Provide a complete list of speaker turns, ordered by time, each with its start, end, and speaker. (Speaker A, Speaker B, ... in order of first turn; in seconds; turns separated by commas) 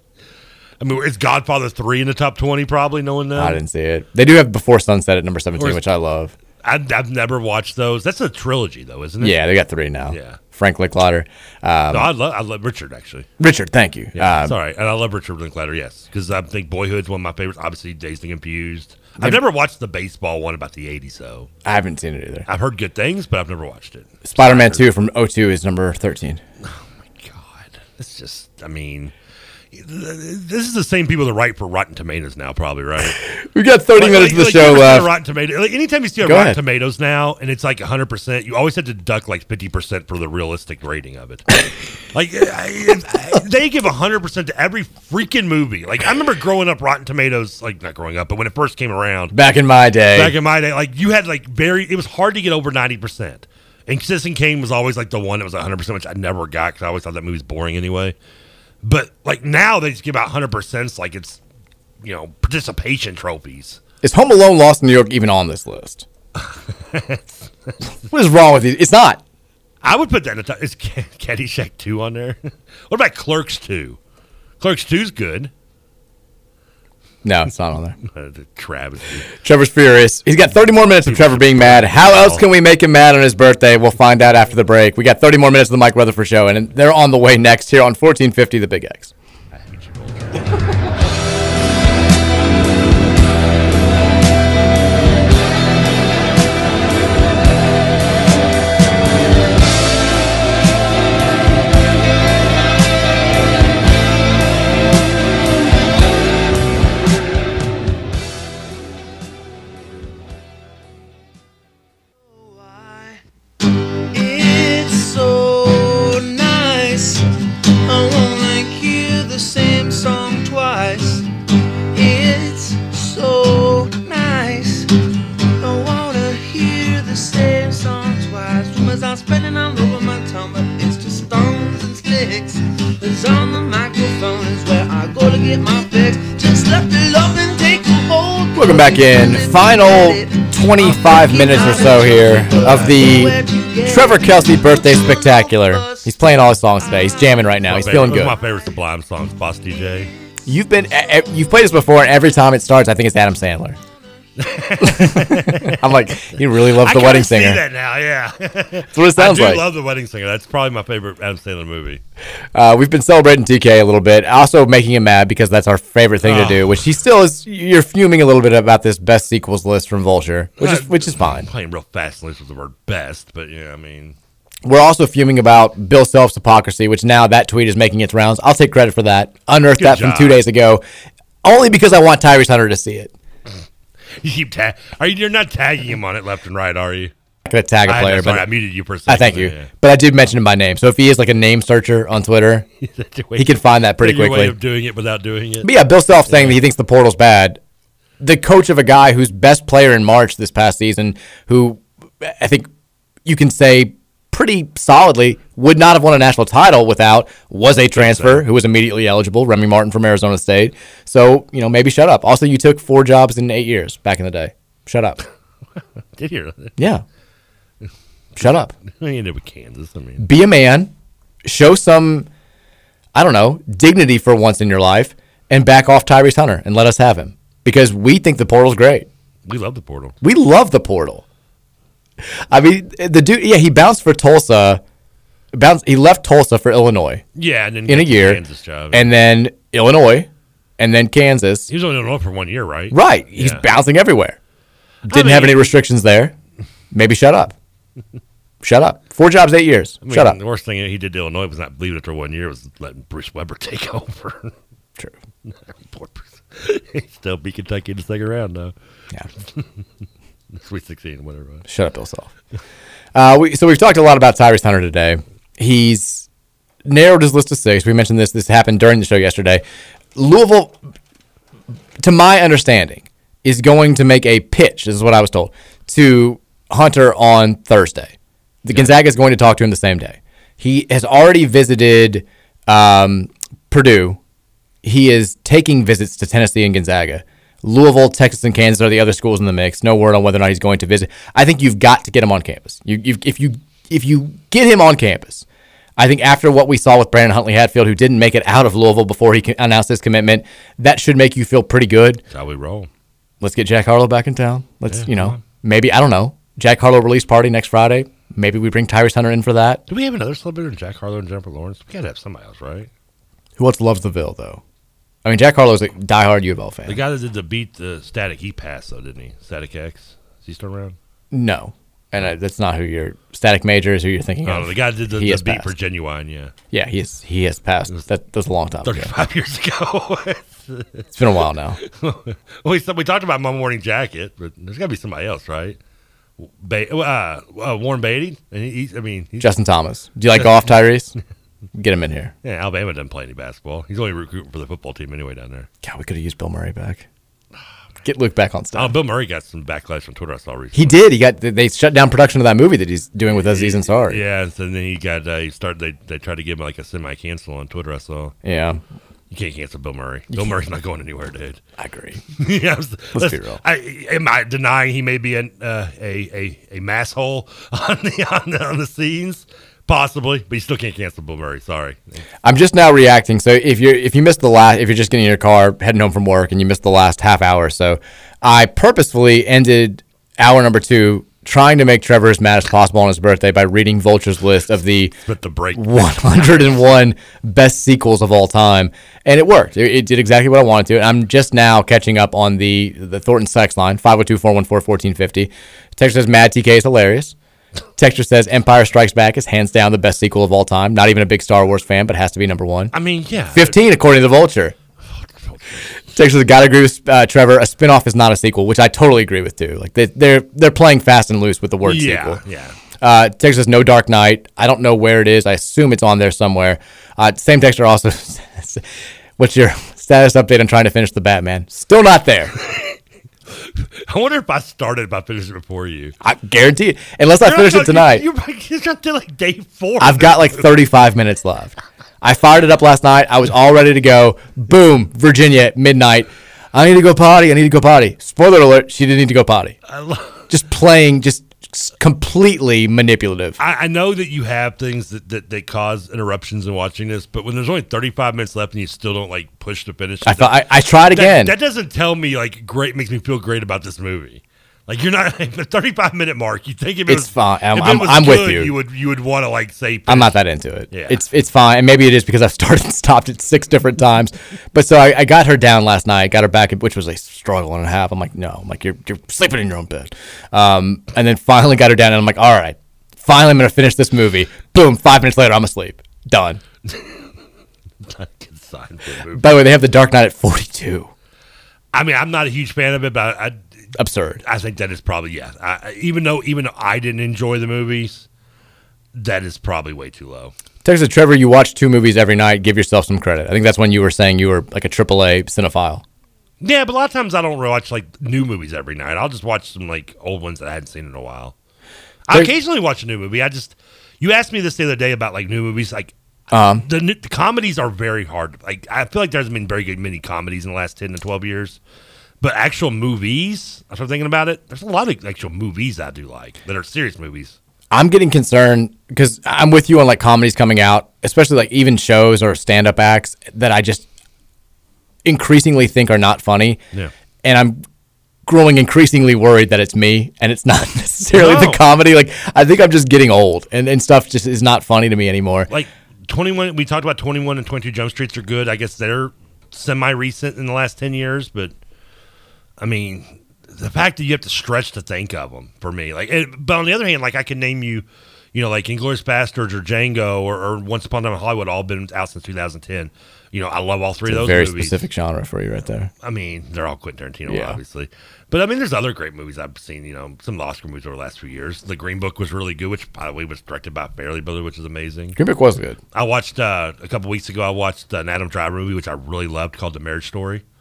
Speaker A: 0.8-3.6, Speaker B: 3.3-6.3, Speaker A: 5.6-5.8, Speaker A: 6.6-9.4, Speaker B: 9.2-12.1, Speaker A: 10.1-10.4, Speaker A: 11.9-13.3, Speaker B: 13.4-14.6, Speaker A: 14.2-21.5, Speaker B: 21.6-22.5, Speaker A: 22.5-24.9, Speaker B: 24.2-26.4, Speaker A: 26.6-29.1, Speaker A: 29.7-33.2, Speaker B: 33.2-35.1, Speaker A: 33.9-41.5, Speaker B: 36.2-36.6, Speaker A: 42.1-49.3, Speaker B: 49.3-50.4, Speaker A: 50.1-58.1, Speaker A: 58.8-61.4, Speaker A: 62.0-63.8, Speaker B: 64.0-66.0, Speaker A: 66.4-67.7, Speaker B: 68.1-69.2, Speaker A: 69.8-74.0, Speaker A: 74.6-75.5, Speaker B: 77.2-78.0, Speaker A: 78.0-79.3, Speaker B: 79.3-89.1, Speaker A: 81.0-82.5, Speaker A: 89.5-90.5, Speaker C: 112.2-113.2, Speaker C: 114.1-117.2, Speaker C: 117.8-121.3, Speaker C: 121.9-124.9, Speaker C: 125.6-146.1, Speaker B: 138.6-148.3, Speaker A: 147.6-150.1, Speaker B: 150.4-153.8, Speaker A: 154.4-155.9, Speaker B: 154.8-157.6, Speaker A: 156.7-162.0, Speaker B: 158.9-159.7, Speaker B: 162.5-171.5, Speaker A: 166.2-166.8, Speaker A: 170.6-174.2, Speaker B: 174.6-180.8, Speaker A: 179.8-180.4, Speaker B: 181.4-183.1, Speaker A: 184.2-187.1, Speaker B: 187.4-188.5, Speaker A: 187.8-189.7, Speaker B: 189.1-192.7, Speaker A: 192.8-195.7, Speaker B: 193.3-194.5, Speaker B: 195.6-197.6, Speaker A: 196.3-196.6, Speaker B: 198.2-202.7, Speaker B: 203.2-215.2, Speaker A: 207.9-208.4, Speaker A: 216.2-216.7, Speaker B: 216.8-217.0, Speaker B: 218.4-218.7, Speaker A: 218.8-220.3, Speaker B: 220.2-220.9, Speaker B: 221.4-222.3, Speaker B: 223.1-229.1, Speaker A: 229.4-230.2, Speaker B: 230.2-231.2, Speaker B: 232.5-234.8, Speaker B: 235.5-237.2, Speaker A: 237.3-239.1, Speaker B: 237.9-241.7, Speaker A: 241.7-243.6, Speaker B: 242.9-244.4, Speaker A: 245.1-245.7, Speaker B: 245.1-246.3, Speaker B: 246.9-247.5, Speaker B: 248.6-250.4, Speaker A: 250.0-254.5, Speaker A: 255.4-258.7, Speaker A: 260.6-261.6, Speaker B: 261.7-262.3, Speaker B: 263.1-266.3, Speaker B: 266.8-269.6, Speaker B: 270.1-270.8, Speaker B: 272.0-284.2, Speaker B: 284.8-295.4, Speaker B: 296.0-302.2, Speaker A: 302.3-302.9, Speaker B: 303.4-309.8, Speaker A: 304.9-305.4, Speaker A: 309.9-312.9, Speaker B: 313.6-314.6, Speaker B: 315.2-317.0, Speaker A: 316.9-320.9, Speaker B: 321.3-325.7, Speaker A: 324.4-326.5, Speaker B: 326.7-329.1, Speaker A: 328.8-331.0, Speaker B: 331.1-331.8, Speaker A: 331.8-335.8, Speaker A: 336.4-339.5, Speaker B: 339.4-341.1, Speaker A: 340.3-340.6, Speaker B: 341.8-342.3, Speaker A: 342.4-345.7, Speaker B: 345.8-347.0, Speaker B: 348.0-348.9, Speaker A: 348.7-351.0, Speaker B: 350.7-354.2, Speaker A: 353.4-358.4, Speaker B: 358.4-358.8, Speaker A: 359.3-361.6, Speaker B: 361.8-362.2, Speaker A: 362.3-372.2, Speaker B: 363.1-363.6, Speaker B: 372.4-385.1, Speaker A: 385.2-386.8, Speaker B: 385.7-397.3, Speaker B: 398.0-402.9, Speaker A: 402.9-403.8, Speaker B: 403.5-404.8, Speaker A: 405.5-405.9, Speaker B: 406.1-412.4, Speaker A: 411.8-412.8, Speaker B: 413.0-422.6, Speaker A: 424.1-426.1, Speaker B: 426.2-428.2, Speaker A: 427.4-430.8, Speaker B: 430.0-439.8, Speaker A: 439.9-440.4, Speaker B: 440.5-443.6, Speaker A: 443.6-460.4, Speaker B: 450.2-451.5, Speaker B: 457.1-458.7, Speaker B: 460.1-476.6, Speaker A: 460.9-461.2, Speaker A: 476.9-477.2, Speaker A: 478.0-479.6, Speaker B: 479.3-481.1, Speaker A: 481.9-483.6, Speaker B: 483.9-484.4, Speaker A: 484.4-488.2, Speaker A: 489.1-490.5, Speaker B: 490.8-496.0, Speaker A: 496.6-501.5, Speaker A: 502.3-506.1, Speaker B: 506.5-506.8, Speaker A: 506.8-511.8, Speaker A: 512.4-517.6, Speaker B: 517.9-524.0, Speaker B: 525.2-526.8, Speaker B: 527.4-527.8, Speaker B: 528.5-535.7, Speaker A: 531.3-531.8, Speaker A: 535.7-541.7, Speaker A: 542.8-555.0, Speaker B: 554.2-556.1, Speaker A: 556.2-565.4, Speaker B: 557.5-557.8, Speaker B: 565.4-566.0, Speaker A: 566.1-570.6